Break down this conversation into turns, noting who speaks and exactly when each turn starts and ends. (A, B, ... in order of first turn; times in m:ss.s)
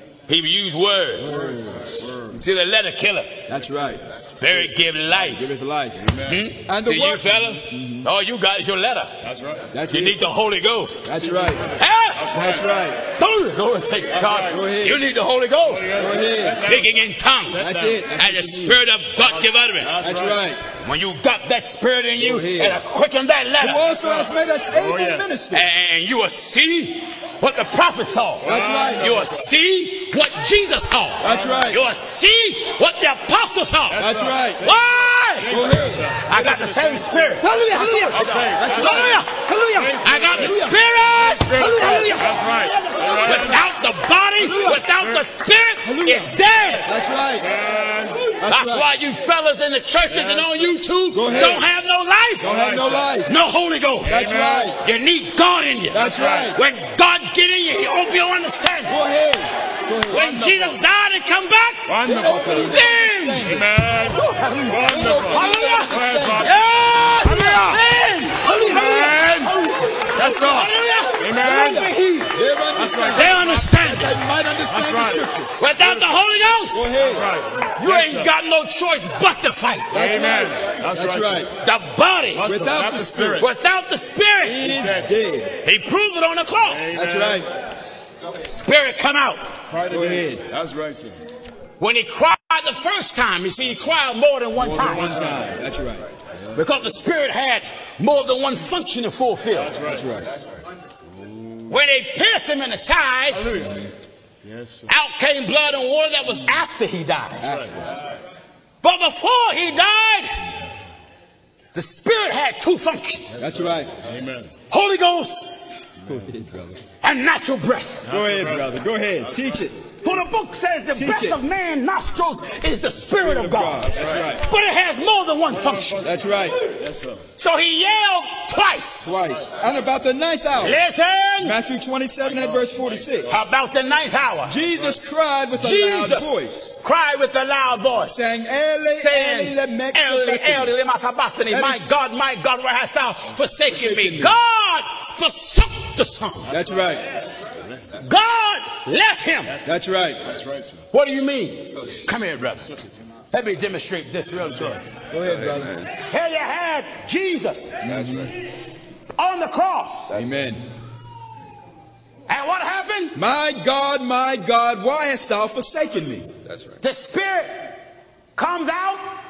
0:00.3-0:01.4 A
0:01.2-0:02.1 B
0:01.3-0:02.4 C
0:02.3-0:03.4 A
0:03.5-0:06.1 B
0:04.3-0:05.5 A
0:06.1-0:06.4 C
0:06.2-0:09.1 A
0:06.6-0:08.0 B
0:09.2-0:09.7 C
0:09.7-0:10.3 B
0:09.9-0:11.1 A
0:11.0-0:11.6 B
0:11.2-0:12.7 C
0:11.8-0:12.3 A
0:12.3-0:13.0 B
0:13.2-0:15.9 A
0:14.1-0:14.6 C
0:14.4-0:15.0 B
0:15.6-0:18.1 C
0:15.9-0:16.7 B
0:16.5-0:17.6 A
0:17.6-0:18.8 B
0:18.1-0:20.0 A
0:19.2-0:20.5 C
0:20.0-0:20.6 B
0:20.7-0:23.9 A
0:22.2-0:22.8 B
0:23.6-0:25.6 B
0:24.0-0:25.4 C
0:25.5-0:34.0 A
0:28.4-0:29.5 C
0:28.4-0:29.2 B
0:31.2-0:31.8 B
0:31.2-0:31.6 C
0:33.9-0:37.4 C
0:34.0-0:34.6 B
0:34.6-0:35.5 A
0:35.5-0:36.0 B
0:36.2-0:46.9 A
0:37.4-0:40.8 B
0:38.1-0:43.6 C
0:41.5-0:42.2 B
0:43.0-0:43.6 B
0:44.4-0:44.9 B
0:44.9-0:45.2 C
0:45.8-0:47.5 B
0:47.4-0:48.2 C
0:48.2-0:48.9 B
0:48.4-0:52.5 A
0:50.1-0:51.6 C
0:51.1-0:51.6 B
0:52.4-0:53.1 C
0:52.4-0:53.3 B
0:53.2-0:54.2 A
0:54.0-0:54.7 C
0:54.0-0:54.8 B
0:54.8-0:59.0 A
0:55.9-0:56.6 B
0:55.9-0:56.6 C
0:58.8-1:00.8 B
1:00.1-1:03.5 A
1:00.3-1:00.6 C
1:01.9-1:07.9 C
1:02.0-1:03.7 B
1:04.1-1:12.3 A
1:04.8-1:06.5 B
1:08.4-1:09.6 C
1:08.5-1:09.0 B
1:10.1-1:11.9 C
1:11.4-1:15.7 B
1:12.7-1:13.7 C
1:13.1-1:14.1 A
1:14.7-1:16.1 C
1:15.6-1:17.0 A
1:16.7-1:17.3 B
1:17.0-1:18.3 C
1:17.8-1:20.0 A
1:19.9-1:21.5 C
1:19.9-1:21.5 B
1:21.6-1:22.5 A
1:22.3-1:23.4 C
1:22.4-1:23.4 B
1:23.4-1:24.8 A
1:24.4-1:25.5 B
1:24.6-1:25.2 C
1:25.6-1:27.0 A
1:26.6-1:27.5 C
1:26.9-1:27.5 B
1:28.4-1:29.4 A
1:29.7-1:31.2 C
1:29.9-1:30.4 B
1:31.8-1:35.3 A
1:34.6-1:36.0 B
1:34.8-1:35.5 C
1:36.5-1:39.7 A
1:39.6-1:40.1 C
1:39.8-1:40.3 B
1:41.7-1:43.5 A
1:43.3-1:43.9 C
1:44.4-1:44.8 C
1:44.9-1:47.5 A
1:47.4-1:48.0 B
1:47.4-1:47.8 C
1:48.8-1:50.4 A
1:51.7-1:53.4 A
1:53.3-1:54.5 C
1:53.4-1:53.9 B
1:54.7-1:55.7 A
1:56.0-1:56.8 B
1:57.0-1:58.0 A
1:58.0-1:59.7 C
1:58.1-1:59.7 B
2:00.0-2:06.1 A
2:00.9-2:01.4 B
2:03.0-2:04.4 B
2:03.8-2:04.3 C
2:05.5-2:07.2 C
2:06.0-2:06.6 B
2:07.4-2:09.2 A
2:09.0-2:10.8 B
2:10.6-2:11.6 A
2:11.4-2:13.4 B
2:12.2-2:13.4 C
2:13.3-2:14.6 A
2:14.4-2:16.7 B
2:15.6-2:18.2 A
2:18.0-2:20.7 B
2:18.9-2:26.5 A
2:21.5-2:21.9 B
2:23.7-2:24.4 B
2:26.5-2:27.0 B
2:28.0-2:29.6 A
2:29.6-2:30.2 B
2:30.2-2:30.8 C
2:30.9-2:32.8 A
2:33.3-2:34.8 A
2:35.1-2:35.9 B
2:36.0-2:37.8 A
2:37.8-2:38.3 B
2:37.8-2:38.3 C
2:39.2-2:40.1 A
2:40.1-2:40.6 B
2:42.3-2:43.2 A
2:43.1-2:46.3 B
2:46.8-2:47.7 A
2:48.4-2:49.0 A